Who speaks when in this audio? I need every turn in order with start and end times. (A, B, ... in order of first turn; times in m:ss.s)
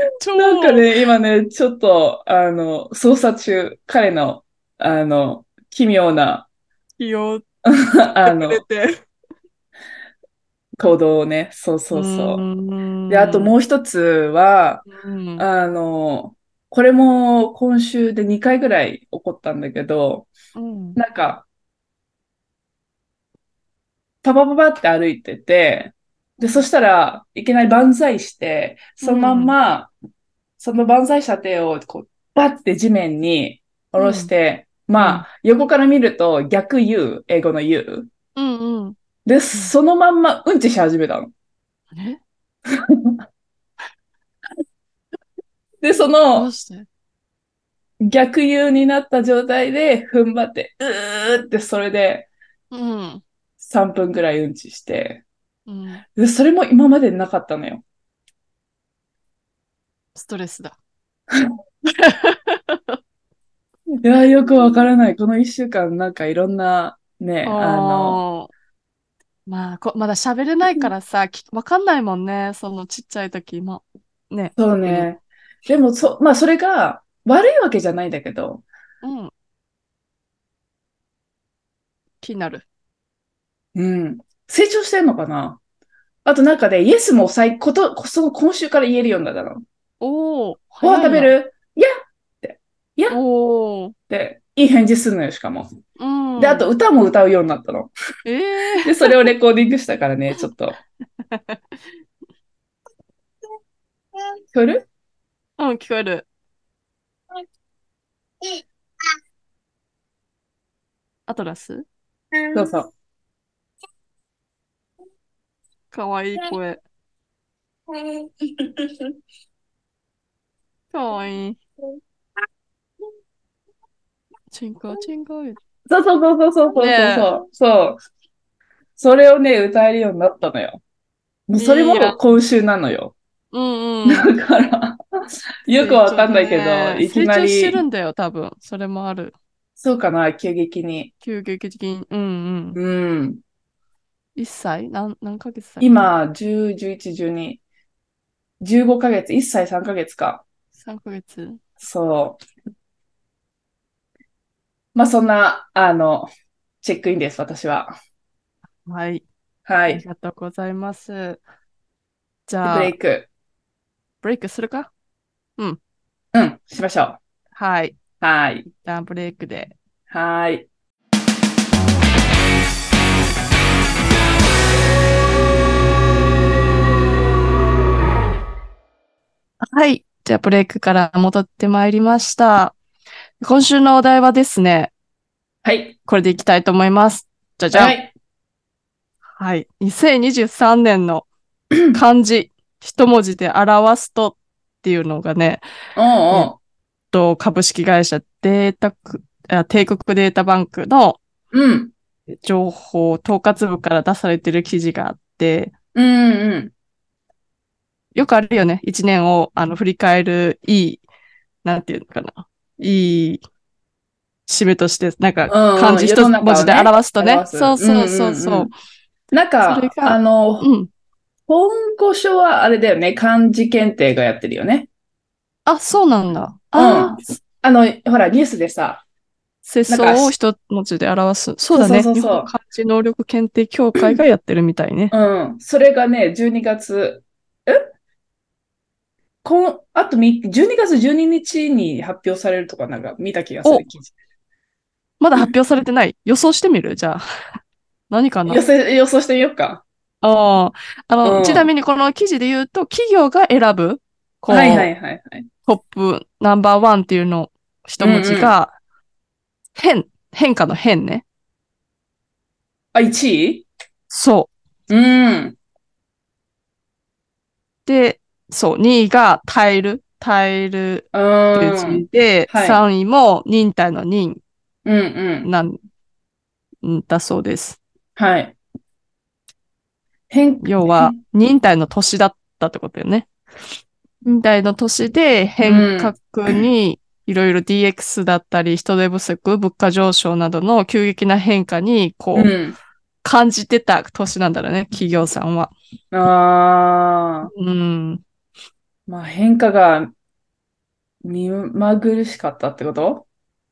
0:00.2-0:00.9 A
0:00.4-0:06.5 B
0:07.0-0:07.4 A
0:07.7-0:08.6 B
0:08.2-0:08.9 A
0:10.8-0:12.4 B
0:11.9-0:13.5 A
0:13.1-0:14.9 B
0:14.9-0:15.4 A
0:15.4-0:20.3 B
0:20.6-0:21.0 A
0:21.0-0:21.4 B
0:24.2-0:29.9 B
0:29.0-0:29.6 A
0:30.6-0:38.1 B
0:34.0-0:34.3 A
0:35.0-0:35.3 A
0:38.4-0:39.0 A
0:39.3-0:41.3 B
0:41.9-0:42.2 A
0:42.8-0:43.1 B
0:45.8-0:46.5 B
0:46.4-0:46.9 A
0:48.0-0:52.3 B
0:52.7-0:53.2 A
0:53.6-0:55.2 B
0:55.7-0:56.0 A
0:56.2-0:57.8 B
1:00.2-1:00.8 A
1:02.0-1:03.0 A
1:04.0-1:08.2 B
1:07.4-1:08.5 A
1:09.5-1:15.1 A
1:14.6-1:18.6 B
1:19.0-1:19.3 A
1:22.2-1:22.6 A
1:23.8-1:25.6 B
1:26.2-1:29.6 B
1:30.0-1:31.3 A
1:30.8-1:31.9 B
1:32.4-1:33.2 B
1:33.1-1:34.0 A
1:34.1-1:35.7 B
1:36.0-1:36.7 A
1:36.4-1:37.9 B
1:38.2-1:39.2 A
1:38.8-1:40.8 B
1:41.2-1:41.8 A
1:44.5-1:44.8 B
1:45.6-1:46.3 A
1:51.3-1:51.9 A
1:52.5-1:52.9 B
1:55.9-1:56.8 A
1:58.6-1:58.9 B
2:00.9-2:01.6 A
2:04.5-2:05.6 A
2:05.9-2:08.0 B
2:06.8-2:07.3 A
2:09.0-2:10.8 B
2:11.5-2:13.1 B
2:11.6-2:12.2 A
2:13.5-2:14.3 A
2:14.1-2:15.0 B
2:15.7-2:17.8 B
2:15.8-2:19.4 A
2:19.8-2:21.1 B
2:21.2-2:22.8 A
2:22.8-2:23.4 B
2:24.4-2:26.1 A
2:25.8-2:27.6 B
2:28.6-2:30.4 B
2:30.8-2:31.6 A
2:31.8-2:32.4 B
2:35.0-2:36.3 B
2:36.8-2:37.9 B
2:38.9-2:39.2 A
2:39.7-2:40.0 B
2:39.9-2:41.4 A
2:42.5-2:43.0 A
2:42.6-2:43.3 B
2:44.2-2:44.9 A
2:46.3-2:47.2 B
2:47.6-2:48.0 A
2:48.2-2:48.7 B
2:48.8-2:49.7 A
2:50.1-2:50.7 B
2:59.7-3:02.8 A
3:03.4-3:04.9 A
3:05.6-3:06.0 B
3:06.1-3:08.0 A
3:07.7-3:08.1 B
3:09.4-3:11.3 A
3:11.9-3:15.6 A
3:16.0-3:16.6 B
3:17.1-3:21.2 A
3:21.5-3:21.9 B
3:22.3-3:25.7 A
3:26.0-3:26.7 B
3:28.2-3:31.0 A
3:31.6-3:33.4 A
3:34.5-3:38.7 A
3:35.5-3:38.7 B
3:39.3-3:40.7 B
3:39.6-3:40.9 A
3:41.5-3:44.9 B
3:45.7-3:47.3 A
3:46.8-3:49.0 B
3:49.6-3:55.1 A
3:49.9-3:50.3 B
3:51.7-3:52.5 B
3:55.1-3:57.8 B
3:59.4-4:04.1 B
4:05.2-4:07.2 A
4:08.1-4:08.6 A
4:08.5-4:09.8 B
4:10.2-4:14.9 A
4:11.2-4:11.7 B
4:14.5-4:15.5 B
4:15.7-4:18.8 A
4:18.0-4:18.6 B
4:19.8-4:21.2 A
4:22.9-4:23.7 B
4:24.1-4:24.5 A
4:24.9-4:25.6 B
4:27.9-4:34.4 A
4:31.1-4:32.8 B
4:34.8-4:35.5 B
4:35.4-4:35.8 A
4:36.8-4:37.8 A
4:38.2-4:38.6 B
4:40.3-4:41.2 B
4:40.6-4:43.3 A
4:44.2-4:52.5 A
4:45.6-4:46.5 B
4:52.4-4:52.8 B
4:53.2-4:55.7 A
4:56.1-4:57.5 B
4:57.5-4:58.2 A
4:59.1-5:00.1 B
5:01.2-5:03.2 B